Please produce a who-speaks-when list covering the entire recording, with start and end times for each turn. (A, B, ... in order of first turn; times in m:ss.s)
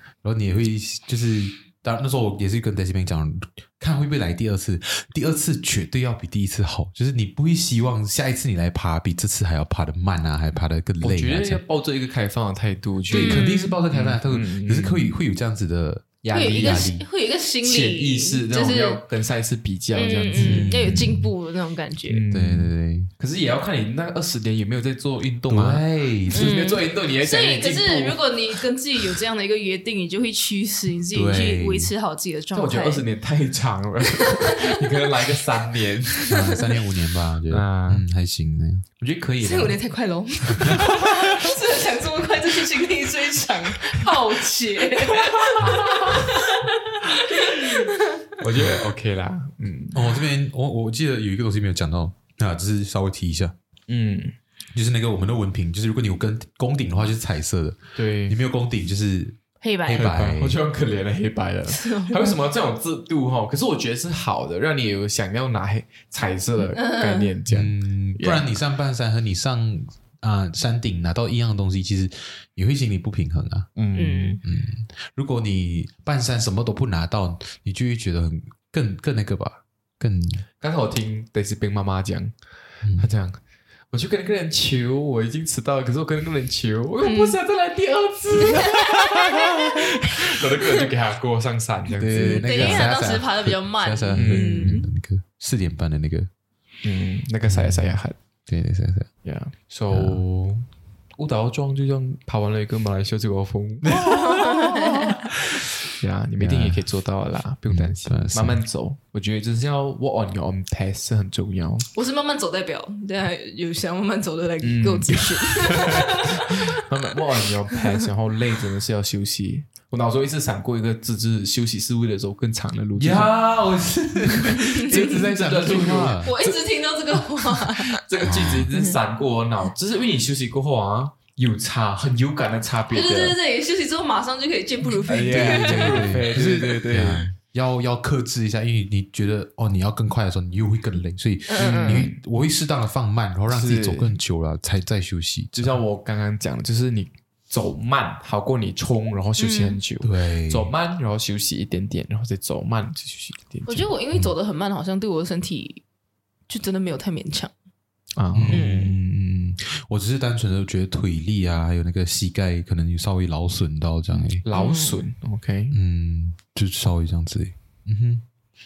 0:00.2-0:11.6 A
0:11.0-0:15.1 B
0:13.1-0:13.8 C
0:13.1-0:17.0 A
0:16.2-0:17.0 B
0:16.3-0:19.0 C
0:17.6-0:20.8 B
0:19.9-0:22.2 C
0:20.3-0:21.3 A
0:22.1-0:28.6 B
0:22.3-0:23.1 A
0:25.5-0:26.6 A
0:26.3-0:33.0 C
0:31.1-0:31.9 A
0:32.5-0:36.5 B
0:34.2-0:34.9 C
0:36.3-0:36.8 C
0:36.3-0:38.8 A
0:37.5-0:38.0 B
0:39.0-0:39.8 B
0:39.4-0:48.3 C
0:40.6-0:40.9 A
0:45.1-0:46.3 B
0:47.1-0:50.2 B
0:49.9-0:53.5 A
0:53.9-0:54.4 B
0:54.7-1:00.6 A
0:58.0-0:58.4 B
0:59.6-1:00.0 C
0:59.9-1:08.6 B
1:01.7-1:02.4 C
1:06.7-1:07.3 C
1:07.5-1:13.7 A
1:13.8-1:14.4 B
1:13.9-1:14.4 C
1:14.4-1:20.4 A
1:20.6-1:22.3 B
1:22.8-1:23.1 A
1:22.9-1:32.9 B
1:27.0-1:27.4 C
1:28.5-1:29.5 C
1:32.0-1:36.3 A
1:32.1-1:34.9 C
1:34.1-1:34.8 B
1:36.8-1:38.2 B
1:37.5-1:39.1 A
1:39.2-1:40.6 B
1:39.9-1:40.3 A
1:41.2-1:44.0 B
1:43.8-1:45.6 A
1:43.9-1:45.3 C
1:46.0-1:51.9 B
1:46.4-1:46.9 A
1:47.7-1:48.6 A
1:51.9-1:56.7 C
1:54.6-2:13.4 B
2:03.0-2:06.3 A
2:04.8-2:08.0 C
2:08.2-2:08.7 A
2:08.7-2:09.0 C
2:12.9-2:16.2 C
2:15.0-2:17.3 B
2:15.2-2:25.8 A
2:21.5-2:22.0 C
2:21.6-2:22.2 B
2:23.5-2:24.2 B
2:25.5-2:33.9 B
2:29.4-2:29.8 C
2:30.0-2:30.7 A
2:33.7-2:35.8 C
2:36.5-2:37.5 C
2:38.2-2:39.0 B
2:38.3-2:44.4 A
2:38.5-2:39.0 C
2:44.1-2:45.8 B
2:44.5-2:45.0 C
2:45.7-2:48.2 A